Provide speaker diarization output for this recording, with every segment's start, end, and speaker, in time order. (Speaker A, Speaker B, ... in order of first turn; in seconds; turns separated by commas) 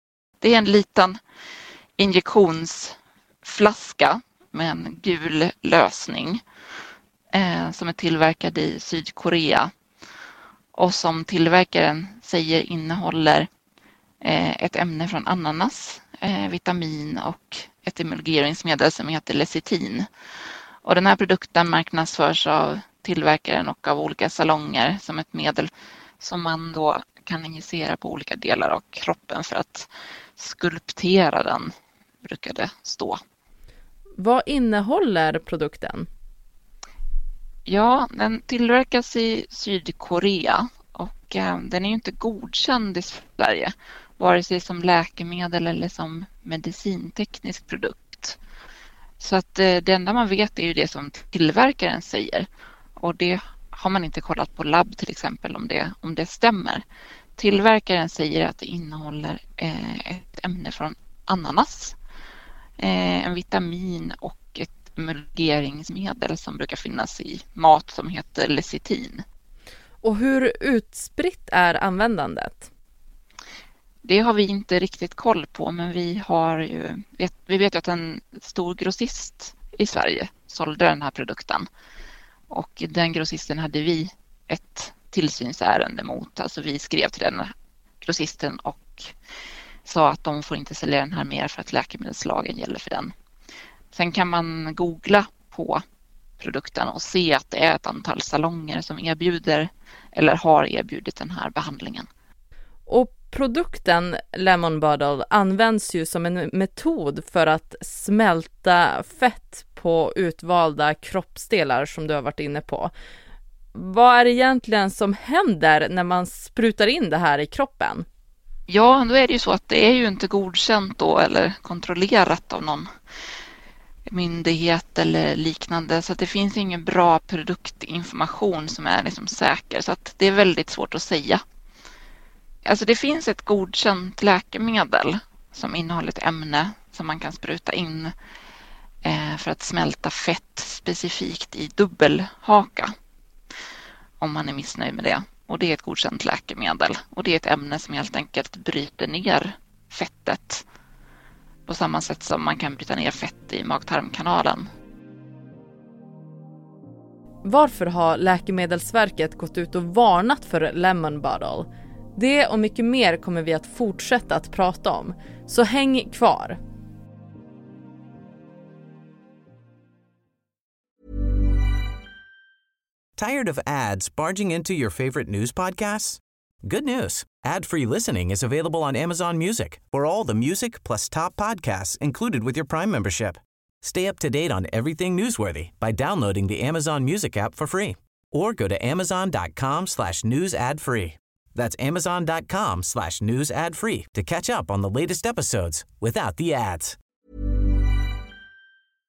Speaker A: 0.4-1.2, Speaker A: 2.0-6.4, Speaker A: 7.3-9.7, Speaker A: 10.8-13.5, Speaker A: 14.2-20.1, Speaker A: 20.9-31.7, Speaker A: 32.2-33.2, Speaker B: 34.2-36.1, Speaker A: 37.7-48.4, Speaker A: 49.2-52.5, Speaker A: 53.0-56.8, Speaker A: 57.4-62.0, Speaker A: 62.8-69.2, Speaker B: 70.0-72.7, Speaker A: 74.0-81.7, Speaker A: 82.5-87.5, Speaker A: 88.0-89.1, Speaker A: 89.9-93.1, Speaker A: 93.9-95.8, Speaker A: 96.4-102.1, Speaker B: 102.9-112.9, Speaker B: 113.8-118.0, Speaker A: 118.7-122.9, Speaker A: 124.1-131.4, Speaker A: 132.7-138.1, Speaker A: 139.0-142.9, Speaker A: 144.2-150.6, Speaker A: 151.7-154.7, Speaker B: 157.4-166.6, Speaker C: 173.2-197.0